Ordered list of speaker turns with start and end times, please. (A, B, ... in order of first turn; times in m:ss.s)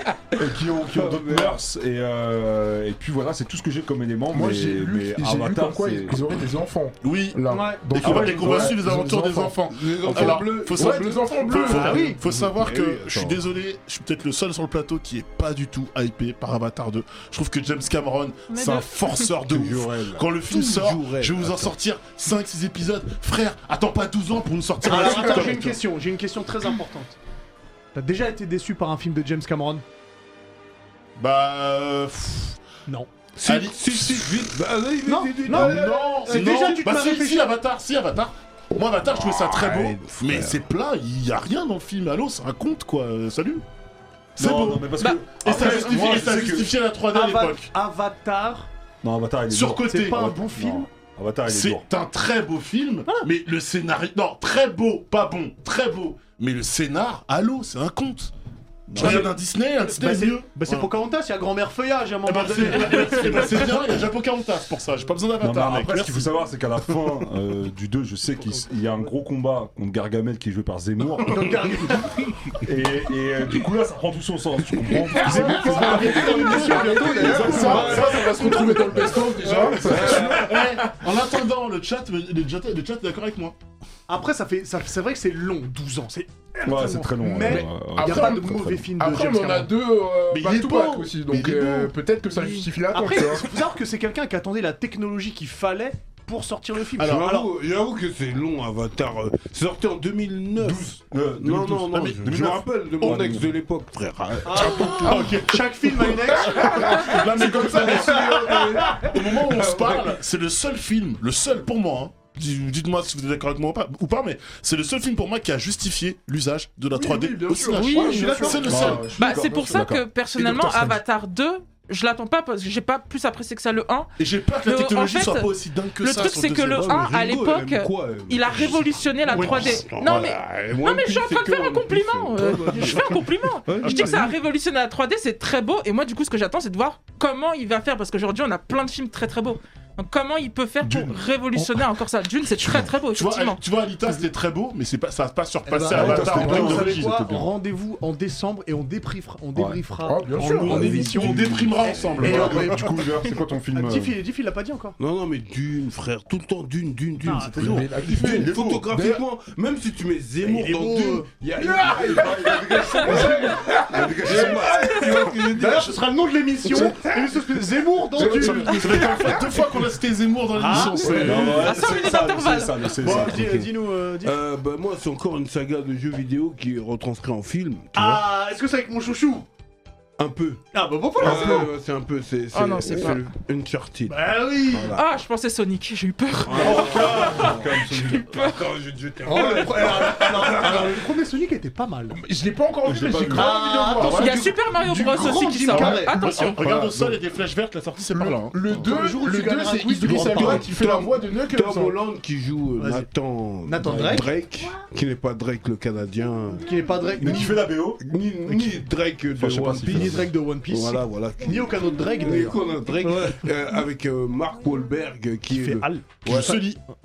0:00.3-0:06.2 A
0:00.9-0:01.6 B
0:04.3-0:12.2 C
0:07.0-0:25.8 D
0:07.5-0:08.4 E
0:08.0-0:08.7 A
0:08.6-0:09.1 B
0:09.6-0:11.5 B
0:11.6-0:12.2 E
0:12.2-0:13.4 B
0:18.5-0:19.2 F
0:19.4-0:21.7 B
0:24.8-0:27.2 E
0:27.9-0:29.8 E
0:31.2-0:32.6 D
0:32.9-0:33.1 E
0:33.4-0:36.4 B
0:33.4-0:34.5 D
0:35.0-0:37.5 E
0:35.5-0:43.6 D
0:39.2-0:40.6 B
0:44.4-0:46.7 A
0:44.4-0:47.7 D
0:45.0-0:45.6 F
0:47.1-0:48.7 E
0:49.0-0:51.8 A
0:49.5-0:50.2 D
0:49.8-0:50.9 E
0:51.5-0:58.3 D
0:58.9-0:59.3 A
0:58.9-1:00.9 D
0:59.0-0:59.3 E
0:59.8-1:03.9 E
1:02.2-1:06.3 D
1:02.9-1:03.3 F
1:05.4-1:11.6 A
1:08.4-1:09.1 E
1:11.2-1:12.3 E
1:12.5-1:15.7 A
1:14.9-1:23.5 D
1:15.1-1:19.0 E
1:15.2-1:20.9 C
1:17.3-1:18.0 A
1:17.7-1:18.4 B
1:19.0-1:20.2 A
1:19.6-1:20.6 B
1:24.1-1:29.7 E
1:26.6-1:28.9 A
1:27.4-1:33.4 C
1:30.3-1:31.9 D
1:32.3-1:37.5 E
1:37.0-1:37.3 D
1:37.0-1:40.9 B
1:40.6-1:43.5 A
1:41.4-1:45.2 B
1:44.4-1:47.2 E
1:44.6-1:59.1 D
1:44.8-1:45.3 C
1:46.3-1:48.6 C
1:46.5-1:50.1 B
1:48.1-1:49.1 E
1:56.9-2:00.7 C
1:57.7-2:05.5 F
1:58.0-1:58.5 B
1:58.0-1:58.6 E
1:58.6-2:00.0 A
2:04.2-2:07.0 D
2:06.0-2:23.6 F
2:06.7-2:14.3 B
2:09.3-2:10.3 D
2:13.8-2:14.3 D
2:20.8-2:21.2 A
2:23.1-2:27.2 D
2:25.6-2:33.1 E
2:25.9-2:27.5 A
2:29.5-2:29.8 A
2:30.1-2:30.9 C
2:30.5-2:32.9 D
2:30.6-2:34.2 A
2:33.7-2:35.0 E
2:35.0-2:45.9 B
2:37.2-2:37.7 E
2:37.3-2:38.9 A
2:37.6-2:39.2 C
2:40.4-2:41.4 E
2:41.5-2:45.3 C
2:42.0-2:44.8 A
2:45.0-2:49.1 E
2:46.7-2:47.0 B
2:48.2-2:49.8 C
2:48.2-2:48.8 B
2:48.4-2:51.7 D
2:50.5-2:51.5 E
2:50.7-2:51.6 C
2:51.2-2:53.6 A
2:51.3-2:52.9 F
2:52.9-2:54.4 E
2:53.1-2:53.7 B
2:54.2-2:58.2 B
2:57.9-2:59.4 E
3:00.2-3:00.6 B
3:00.7-3:01.8 E
3:01.2-3:05.1 B
3:02.5-3:03.2 F
3:04.0-3:05.0 E
3:04.9-3:08.6 F
3:06.4-3:11.0 B
3:06.5-3:08.3 A
3:09.2-3:12.2 E
3:12.1-3:14.3 C
3:12.8-3:14.3 A
3:13.2-3:16.6 E
3:14.0-3:16.6 F
3:14.1-3:18.8 D
3:18.1-3:22.0 C
3:18.7-3:20.8 E
3:20.1-3:36.6 B
3:22.8-3:23.1 E
3:23.6-3:24.3 E
3:23.8-3:24.3 A
3:26.6-3:27.6 E
3:27.2-3:30.3 A
3:29.9-3:33.5 E
3:35.5-3:36.6 E
3:36.2-3:36.8 D